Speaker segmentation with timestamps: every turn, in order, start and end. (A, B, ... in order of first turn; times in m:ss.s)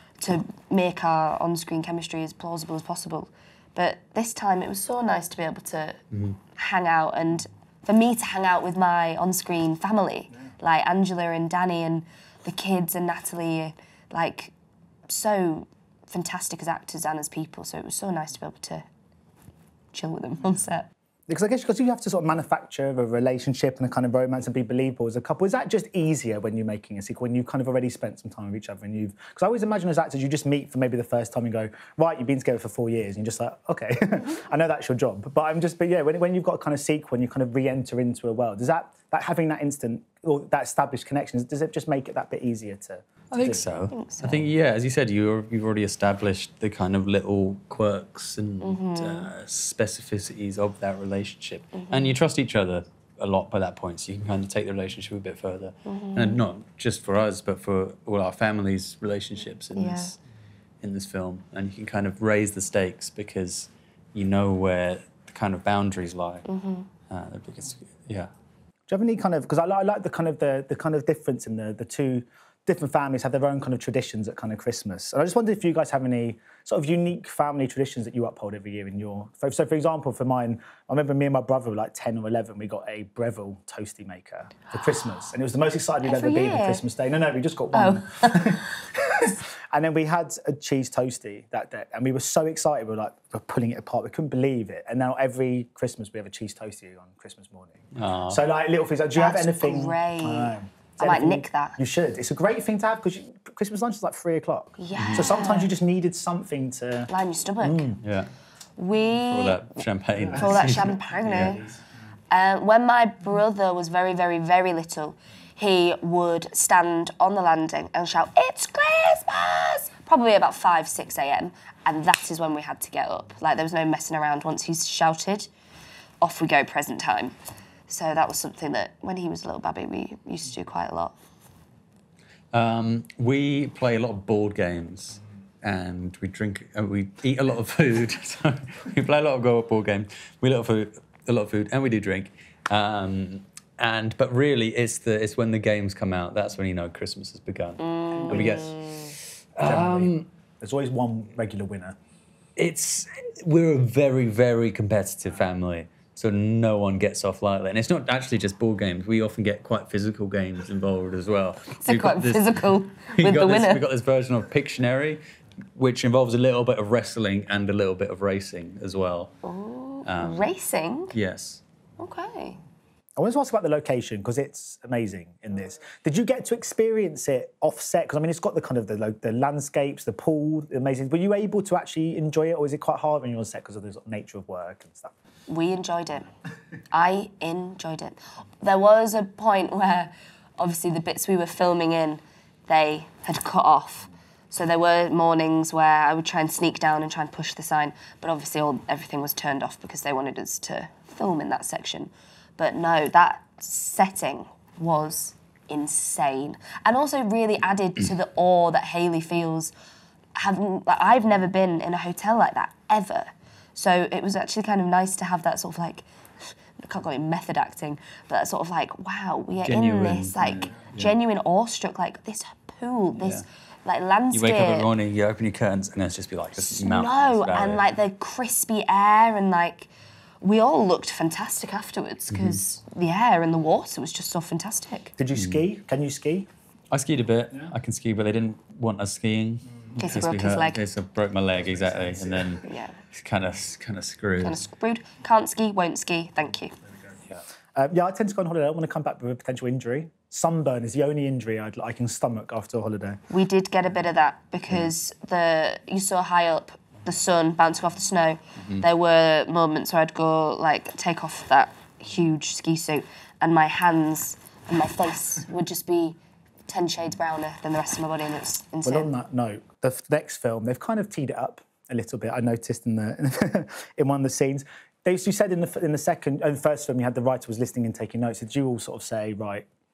0:00.2-0:06.0 A
0:06.5-0:14.5 A
0:15.1-0:18.8 A
0:19.9-0:20.9 A
0:21.3-0:43.6 B
0:43.3-1:00.2 C
0:43.9-0:44.5 A
0:48.6-0:49.3 A
0:51.8-0:52.1 A
0:55.8-0:56.4 A
0:59.7-1:00.1 A
1:00.8-1:06.4 C
1:06.4-1:06.9 A
1:07.1-1:08.3 C
1:08.9-1:47.1 B
1:26.0-1:26.8 A
1:27.7-1:28.7 A
1:37.9-1:38.4 C
1:39.1-1:41.8 A
1:44.8-1:45.7 A
1:44.9-1:45.3 C
1:47.1-1:47.9 A
1:47.6-1:48.0 B
1:48.0-1:48.3 C
1:48.8-1:49.7 A
1:49.1-1:51.6 C
1:50.3-1:51.6 A
1:52.3-2:05.5 A
2:06.2-2:07.3 A
2:07.9-2:11.1 A
2:12.5-2:30.3 C
2:27.8-2:29.1 A
2:28.1-2:28.7 B
2:29.6-2:32.0 B
2:32.6-2:45.2 C
2:41.8-2:43.8 A
2:45.7-2:49.3 C
2:49.4-2:51.1 A
2:50.0-2:50.5 C
2:51.1-2:51.6 C
2:52.0-2:52.6 A
2:53.2-3:05.1 B
3:05.5-3:06.3 A
3:06.9-3:29.7 A
3:30.4-3:36.0 A
3:36.8-3:44.9 A
3:39.6-3:41.1 C
3:44.3-3:47.8 C
3:46.7-3:49.9 A
3:50.4-3:55.1 A
3:52.3-3:52.6 C
3:55.2-3:56.5 B
3:55.3-3:55.6 C
3:56.9-4:04.6 C
4:00.0-4:00.8 A
4:01.9-4:02.6 B
4:02.6-4:03.0 A
4:04.4-4:06.7 A
4:07.8-4:13.2 B
4:13.3-4:26.2 A
4:18.6-4:18.8 C
4:26.7-4:29.1 A
4:28.8-4:39.6 B